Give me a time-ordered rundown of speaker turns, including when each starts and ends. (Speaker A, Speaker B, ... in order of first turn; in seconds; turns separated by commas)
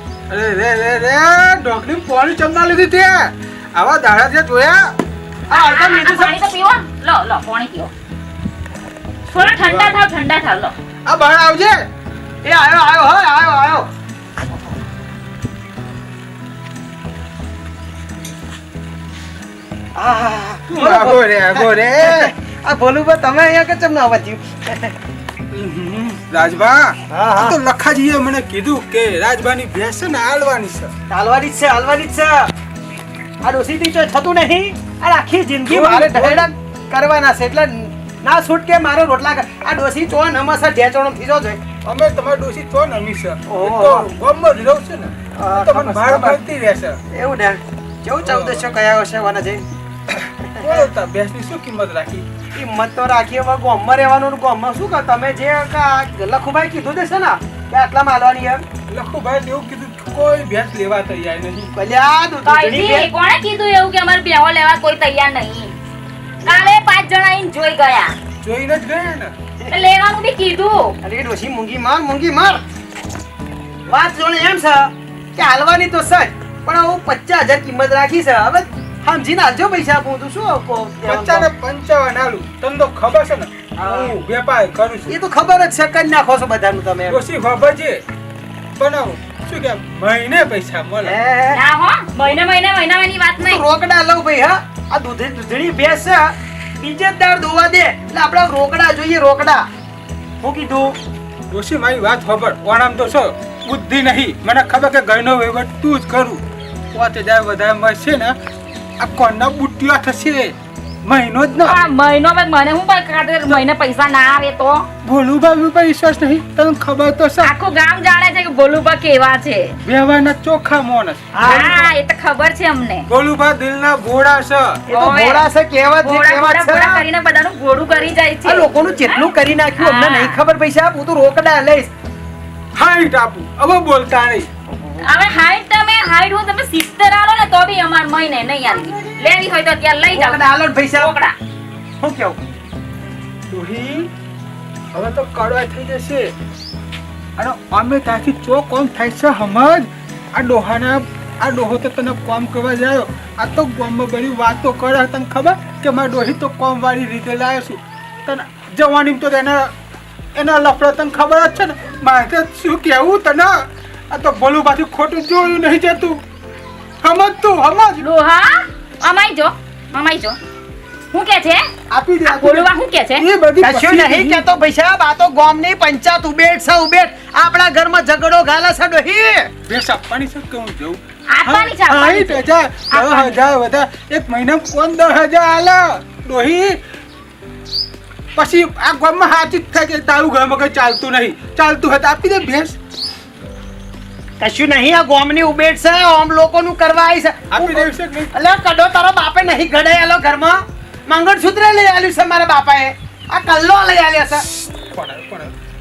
Speaker A: 0.3-4.9, Speaker B: 5.5-6.4, Speaker C: 5.5-7.9, Speaker C: 9.3-10.7, Speaker A: 9.4-10.0, Speaker A: 11.1-11.8, Speaker B: 12.4-13.9, Speaker B: 19.9-24.9, Speaker A: 20.7-22.3, Speaker A: 25.5-30.9, Speaker B: 27.1-27.6, Speaker B: 31.1-32.5, Speaker B: 33.4-41.7, Speaker A: 35.7-36.5, Speaker A: 41.8-47.0, Speaker B: 43.5-44.1, Speaker B: 45.4-46.4, Speaker B: 47.1-50.9, Speaker A: 48.2-48.6, Speaker A: 50.6-52.2, Speaker B: 52.5-58.6, Speaker A: 58.9-61.7, Speaker B: 61.8-63.1, Speaker C: 62.4-65.7, Speaker C: 66.4-68.1, Speaker B: 66.4-66.7, Speaker A: 68.4-69.3, Speaker C: 69.7-71.0, Speaker B: 71.0-72.6, Speaker B: 73.9-81.5, Speaker A: 81.0-85.1, Speaker B: 83.8-84.2, Speaker B: 85.1-87.2, Speaker A: 87.1-88.0, Speaker A: 88.8-91.2, Speaker B: 91.0-91.6, Speaker C: 91.5-93.6, Speaker B: 93.5-99.7, Speaker B: 100.4-100.9, Speaker A: 101.5-106.4, Speaker A: 106.9-108.3, Speaker A: 109.0-111.8, Speaker C: 111.6-114.9, Speaker A: 115.0-117.5, Speaker C: 117.4-119.8, Speaker A: 119.8-121.7, Speaker B: 121.3-121.9, Speaker C: 121.4-123.1, Speaker A: 123.1-124.8, Speaker B: 124.9-127.0, Speaker C: 124.9-125.4, Speaker C: 126.0-129.2, Speaker B: 128.4-131.9, Speaker C: 129.8-130.4, Speaker A: 132.7-134.5, Speaker B: 134.7-135.0, Speaker C: 135.0-141.3, Speaker B: 140.1-141.1, Speaker B: 142.0-142.4, Speaker A: 143.5-144.1, Speaker A: 144.9-146.3, Speaker A: 147.4-159.7, Speaker A: 160.3-166.2, Speaker A: 167.0-168.0, Speaker C: 168.0-170.4, Speaker C: 171.1-171.7, Speaker A: 171.9-174.4, Speaker C: 172.2-173.3, Speaker B: 173.6-179.5, Speaker A: 179.7-186.8, Speaker C: 181.3-183.4, Speaker A: 188.3-192.8, Speaker B: 194.4-204.4, Speaker A: 197.5-198.3, Speaker A: 204.9-205.5